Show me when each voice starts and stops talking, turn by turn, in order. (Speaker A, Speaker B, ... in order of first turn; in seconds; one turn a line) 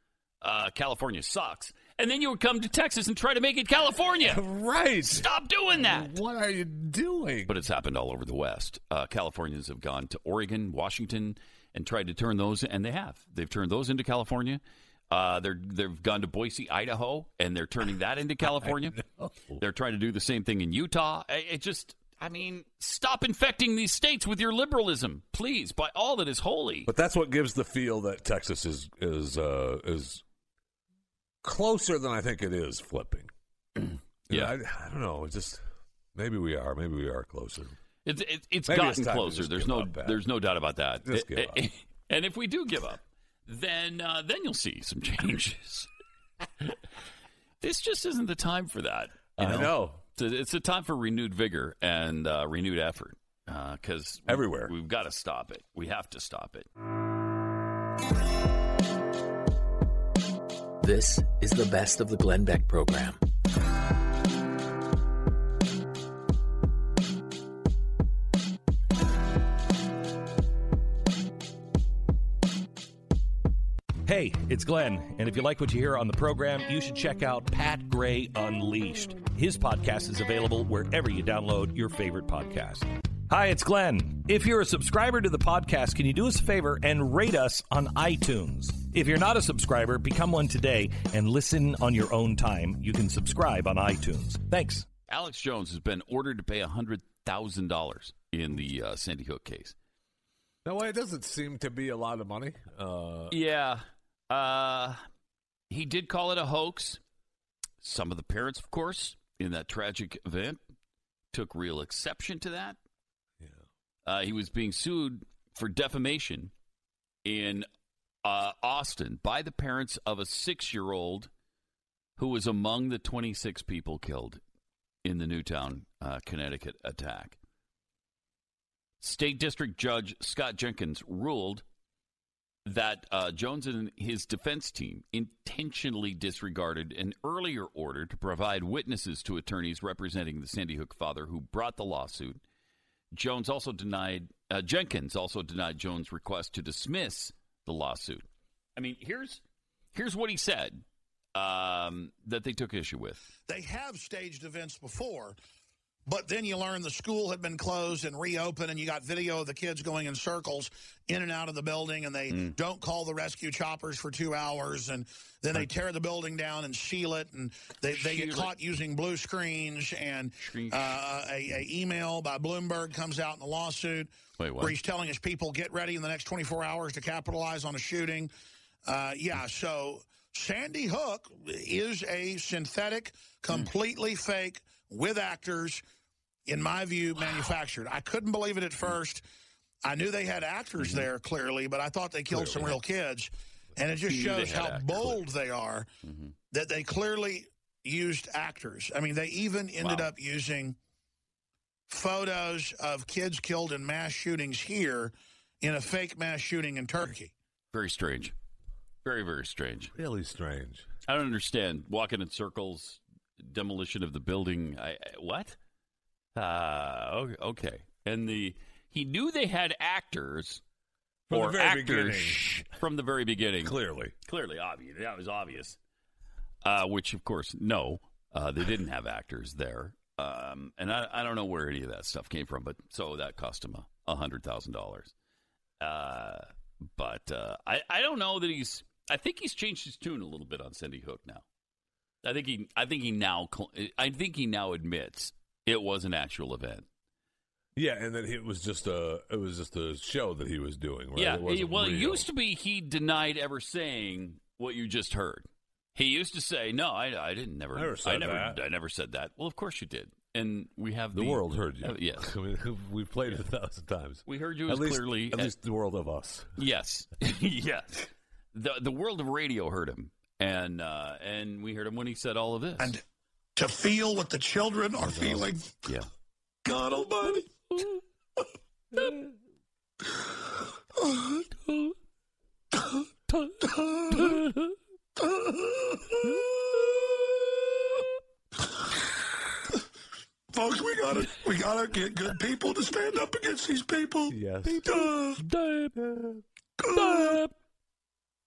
Speaker A: 0.4-4.4
Speaker B: 4.2-7.5
Speaker A: 5.1-6.1
Speaker A: 7.5-19.0
Speaker B: 18.6-19.6
Speaker A: 19.6-26.9
Speaker B: 26.9-30.2
Speaker B: 31.4-33.3
Speaker B: 34.3-35.6
Speaker B: 36.1-37.8
Speaker A: 38.0-45.9
Speaker B: 38.7-40.2
Speaker B: 41.0-41.7
Speaker A: 47.6-56.7
Speaker B: 49.4-50.0
Speaker B: 54.3-54.7
Speaker C: 60.8-63.2
Speaker D: 74.1-94.9
Speaker A: 95.1-99.8
Speaker B: 100.6-103.4
Speaker A: 103.3-105.0
Speaker A: 105.7-107.0
Speaker A: 107.8-110.6
Speaker A: 111.3-112.8
Speaker A: 114.1-116.5
Speaker A: 117.2-117.7
Speaker A: 118.2-121.3
Speaker A: 122.2-124.4
Speaker A: 125.0-127.4
Speaker A: 129.0-131.6
Speaker A: 132.7-142.4
Speaker A: 143.1-149.4
Speaker A: 149.9-150.8
Speaker A: 151.3-153.3
Speaker E: 153.5-155.4
Speaker E: 156.1-178.3
Speaker A: 167.9-168.5
Speaker A: 170.4-170.9
Speaker A: 174.4-174.8
Speaker E: 178.9-185.8
Speaker E: 186.5-189.2
Speaker E: 189.8-195.9
Speaker A: 190.8-191.1
Speaker B: 192.3-192.7
Speaker A: 194.0-195.2
Speaker A: 196.0-196.3
Speaker E: 196.5-200.8
Speaker A: 199.8-200.1
Speaker E: 201.9-207.3
Speaker A: 207.7-208.3
Speaker A: 209.0-209.9
Speaker B: 209.9-210.9
Speaker A: 211.1-215.6
Speaker A: 216.3-220.6
Speaker B: 221.3-222.7
Speaker A: 221.3-225.8
Speaker B: 223.6-224.1
Speaker A: 226.6-235.1
Speaker A: 235.8-241.4
Speaker A: 242.2-246.9
Speaker B: 247.8-252.3
Speaker A: 251.2-262.3
Speaker B: 257.7-258.6
Speaker B: 261.1-266.6
Speaker A: 264.3-265.5
Speaker A: 266.6-272.9
Speaker E: 273.6-275.9
Speaker B: 275.0-275.5
Speaker E: 276.6-277.5
Speaker A: 277.7-278.0
Speaker E: 281.0-281.4
Speaker E: 282.7-283.0
Speaker E: 283.6-284.5
Speaker A: 284.1-284.6
Speaker E: 285.2-288.1
Speaker E: 290.5-295.4
Speaker B: 294.3-295.1
Speaker A: 294.8-295.9
Speaker B: 295.9-296.4
Speaker E: 296.8-297.4
Speaker A: 296.9-297.5